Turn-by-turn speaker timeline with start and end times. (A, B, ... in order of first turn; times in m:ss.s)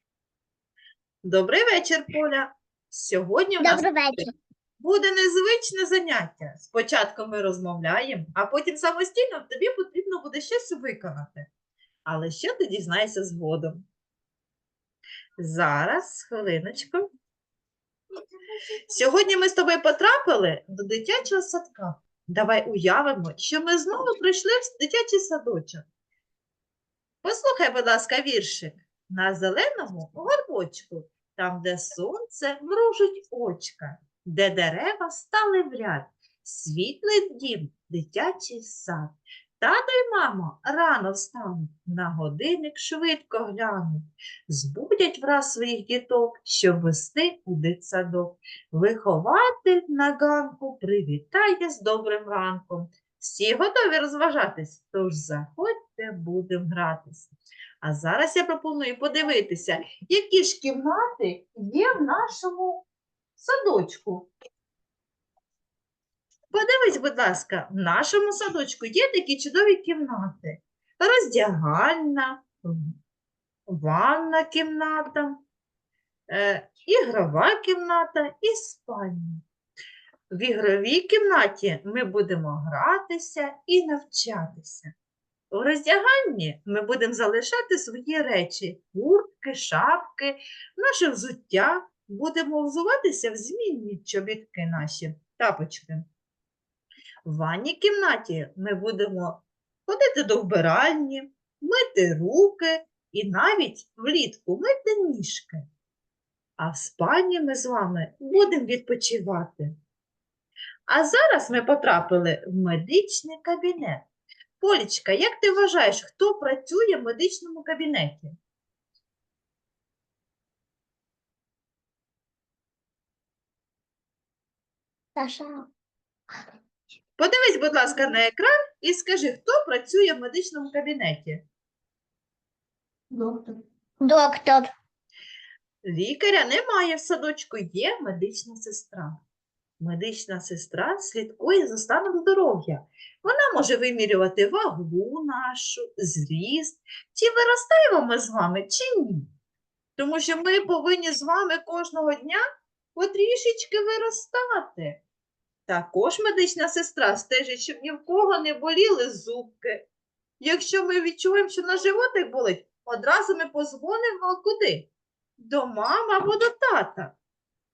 0:01.2-0:04.2 A
0:03.6-0:04.3 B
0:04.8-0:11.5 A
0:12.0-0:13.8 A
0:15.4-0:17.0 A
0:18.9-0:25.8 A
0:27.2-0:57.3 A
0:57.8-1:02.8 A
1:03.4-1:04.3 A
1:06.5-1:13.0 A
1:13.7-1:15.4 A
1:16.3-1:19.4 A
1:20.3-1:24.9 A
1:25.5-1:36.1 A
1:37.2-1:45.6 A
1:46.6-1:49.7 A
1:50.9-1:54.0 A
1:54.6-1:58.3 A
2:05.2-2:05.7 B
2:07.2-2:11.4 A
2:13.1-2:14.7 B
2:15.8-2:19.2 A
2:19.8-2:29.3 A
2:30.0-2:32.4 A
2:32.9-2:35.0 A
2:35.7-2:39.8 A
2:40.4-2:47.1 A